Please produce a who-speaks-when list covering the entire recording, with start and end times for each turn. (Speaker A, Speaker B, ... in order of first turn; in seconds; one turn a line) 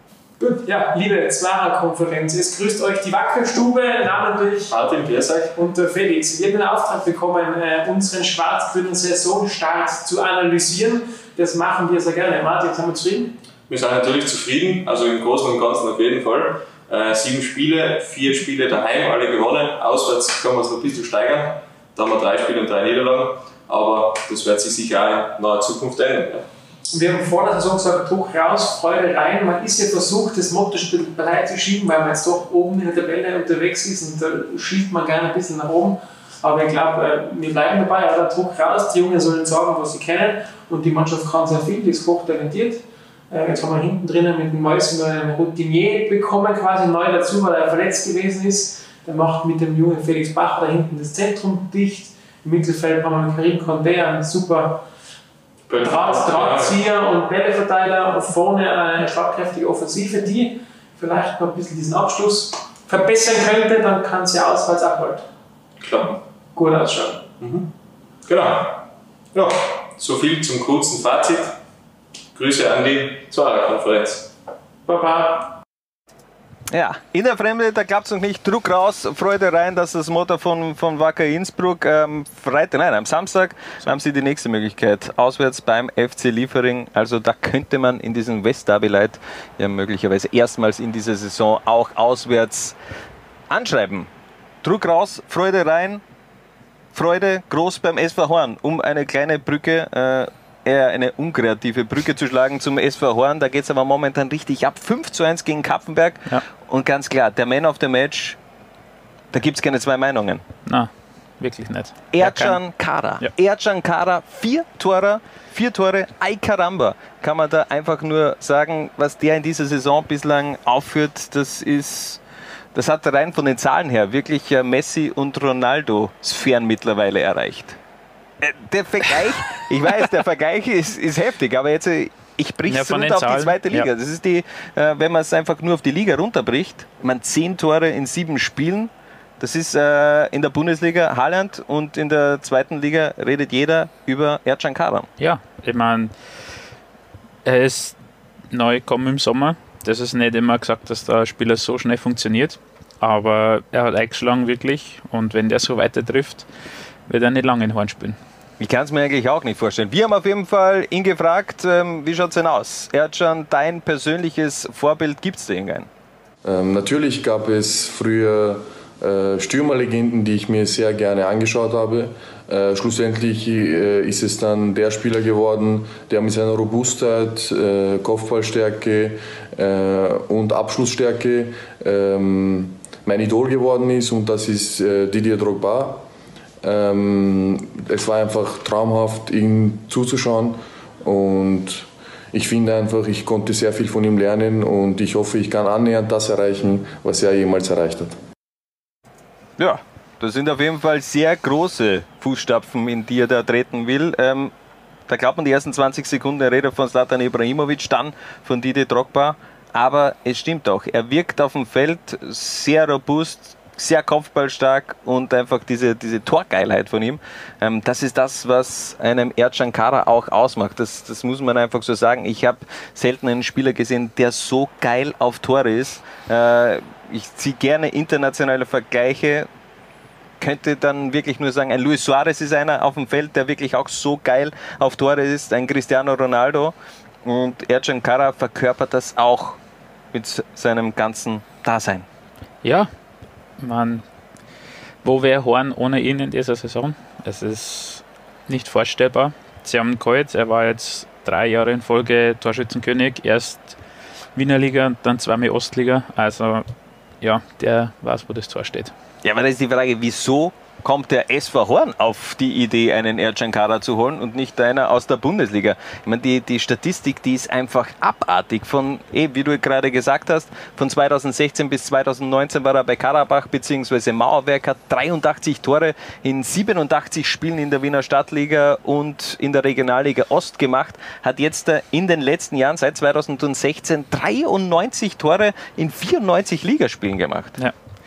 Speaker A: 0.4-4.7
Speaker B: 4.7-5.6
Speaker A: 5.5-13.3
Speaker B: 13.7-26.4
Speaker A: 26.9-54.8
Speaker B: 55.7-56.8
Speaker A: 55.8-65.3
Speaker B: 65.8-66.2
Speaker A: 66.5-67.3
Speaker B: 67.4-67.7
Speaker B: 68.3-68.8
Speaker B: 69.3-71.5
Speaker B: 72.3-74.3
Speaker A: 74.9-75.5
Speaker C: 76.7-92.8
Speaker C: 93.5-94.1
Speaker C: 94.6-96.0
Speaker C: 96.9-108.4
Speaker C: 109.3-110.4
Speaker D: 110.7-112.6
Speaker C: 112.1-122.2
Speaker C: 122.8-127.8
Speaker C: 128.4-145.1
Speaker D: 132.7-133.9
Speaker D: 145.2-146.1
Speaker D: 147.4-148.0
Speaker D: 148.5-156.5
Speaker D: 157.1-158.2
Speaker C: 158.6-165.9
Speaker E: 166.4-186.0
Speaker E: 186.6-198.2
Speaker C: 199.6-204.5
Speaker C: 205.1-229.5
Speaker C: 230.4-239.6
Speaker C: 240.1-242.1
Speaker D: 242.6-242.9
Speaker D: 243.6-244.1
Speaker D: 245.0-253.8
Speaker D: 254.3-256.7
Speaker D: 257.2-258.9
Speaker C: 259.2-287.6